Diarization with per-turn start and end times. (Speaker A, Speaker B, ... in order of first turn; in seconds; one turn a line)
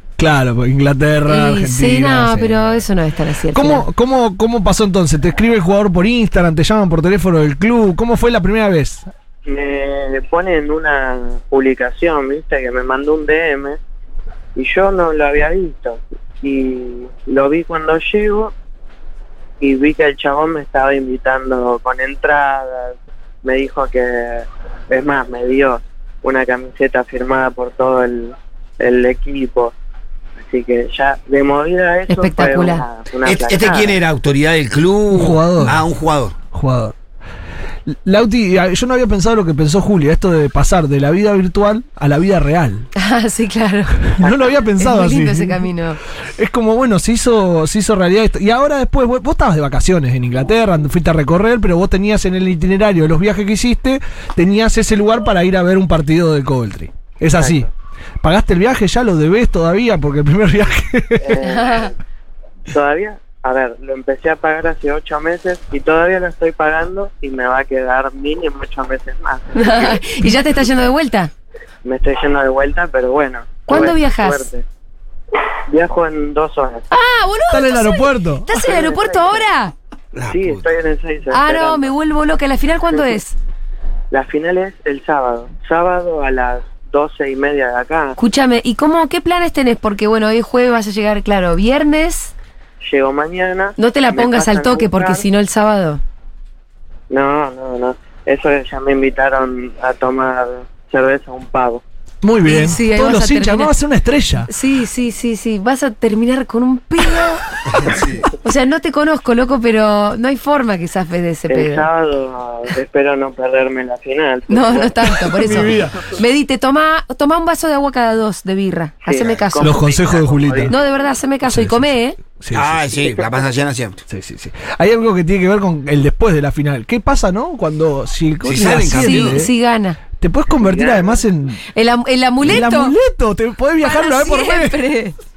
Speaker A: 0.2-2.8
Speaker B: 1.3-3.9
Speaker A: 3.5-9.1
Speaker C: 9.5-13.8
Speaker C: 14.6-18.5
Speaker C: 19.6-29.8
Speaker C: 30.4-34.0
Speaker B: 32.1-32.8
Speaker D: 33.2-36.4
Speaker A: 35.1-35.8
Speaker A: 36.5-37.0
Speaker A: 37.9-42.9
Speaker B: 43.0-44.0
Speaker A: 44.0-45.7
Speaker B: 44.5-46.0
Speaker A: 46.4-57.7
Speaker C: 57.3-57.7
Speaker A: 58.2-61.4
Speaker C: 61.2-61.9
Speaker B: 61.4-61.9
Speaker C: 62.7-70.0
Speaker B: 69.5-71.3
Speaker C: 71.8-74.6
Speaker B: 73.7-74.5
Speaker C: 75.7-76.9
Speaker B: 76.9-79.8
Speaker A: 77.5-78.5
Speaker C: 78.5-79.5
Speaker D: 80.1-80.7
Speaker C: 80.3-81.9
Speaker B: 81.3-83.3
Speaker C: 82.9-83.2
Speaker C: 84.1-88.2
Speaker B: 88.2-92.3
Speaker C: 92.8-95.2
Speaker B: 93.8-96.0
Speaker C: 97.1-101.8
Speaker A: 102.2-104.5
Speaker B: 102.5-103.7
Speaker B: 104.5-107.5
Speaker D: 107.8-108.2
Speaker B: 108.4-111.9
Speaker C: 111.5-115.9
Speaker B: 114.5-119.8
Speaker A: 115.3-116.0
Speaker C: 119.0-120.9
Speaker A: 119.6-120.7
Speaker B: 120.7-122.2
Speaker A: 121.5-122.8
Speaker D: 122.5-124.0
Speaker C: 122.9-123.5
Speaker A: 124.1-129.5
Speaker D: 128.4-129.4
Speaker B: 129.0-130.0
Speaker A: 130.2-131.6
Speaker C: 130.6-131.2
Speaker B: 131.7-132.9
Speaker A: 132.4-134.8
Speaker B: 133.8-135.2